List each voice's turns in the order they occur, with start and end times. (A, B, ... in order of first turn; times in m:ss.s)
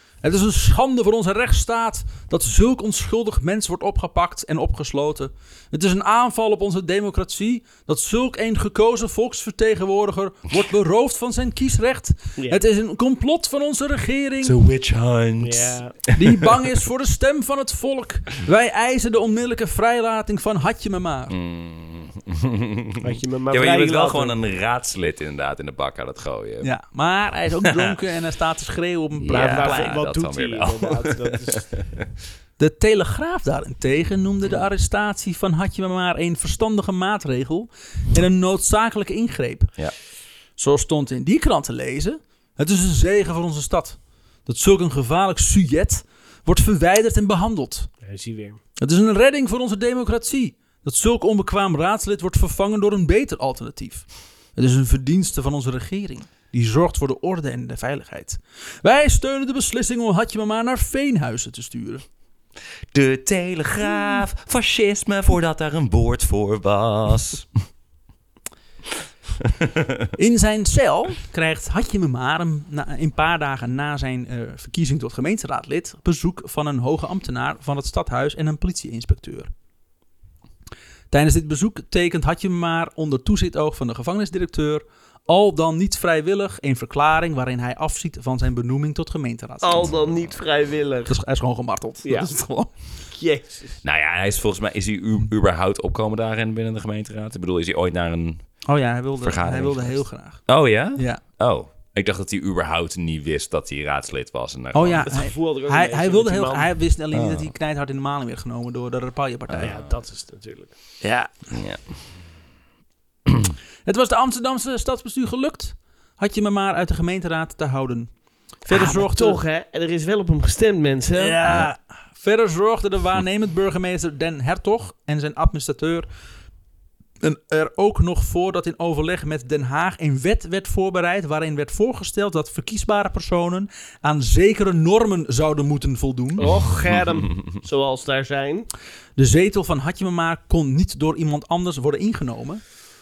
0:00.2-0:14.6 A
0:14.4-0:16.0 B
0:15.4-0:15.9 C
0:16.1-0:21.4 A
0:21.3-0:26.7 B
0:23.0-0:24.4 C
0:26.6-0:30.0 A
0:29.2-0:32.0 B
0:29.3-0:31.8 C
0:32.6-0:39.7 A
0:40.6-0:47.9 A
0:48.0-0:48.6 C
0:48.8-1:02.0 A
1:02.9-1:07.5 B
1:10.2-1:19.5 A
1:21.1-1:30.1 A
1:29.6-1:31.2 C
1:29.8-1:30.1 B
1:31.0-1:32.7 A
1:32.0-1:32.3 C
1:33.1-1:33.8 C
1:33.8-1:38.6 B
1:38.6-1:41.2 A
1:39.2-1:45.1 B
1:44.7-1:49.8 A
1:45.0-1:46.7 C
1:47.1-1:47.5 B
1:49.5-1:50.0 B
1:49.6-1:50.7 C
1:51.0-1:51.3 A
1:51.5-1:51.9 B
1:53.3-1:53.5 B
1:53.8-1:59.4 A
1:58.7-2:01.4 C
2:01.2-2:06.1 A
2:07.2-2:16.5 A
2:16.4-2:18.7 C
2:16.4-2:17.4 B
2:19.2-2:22.6 A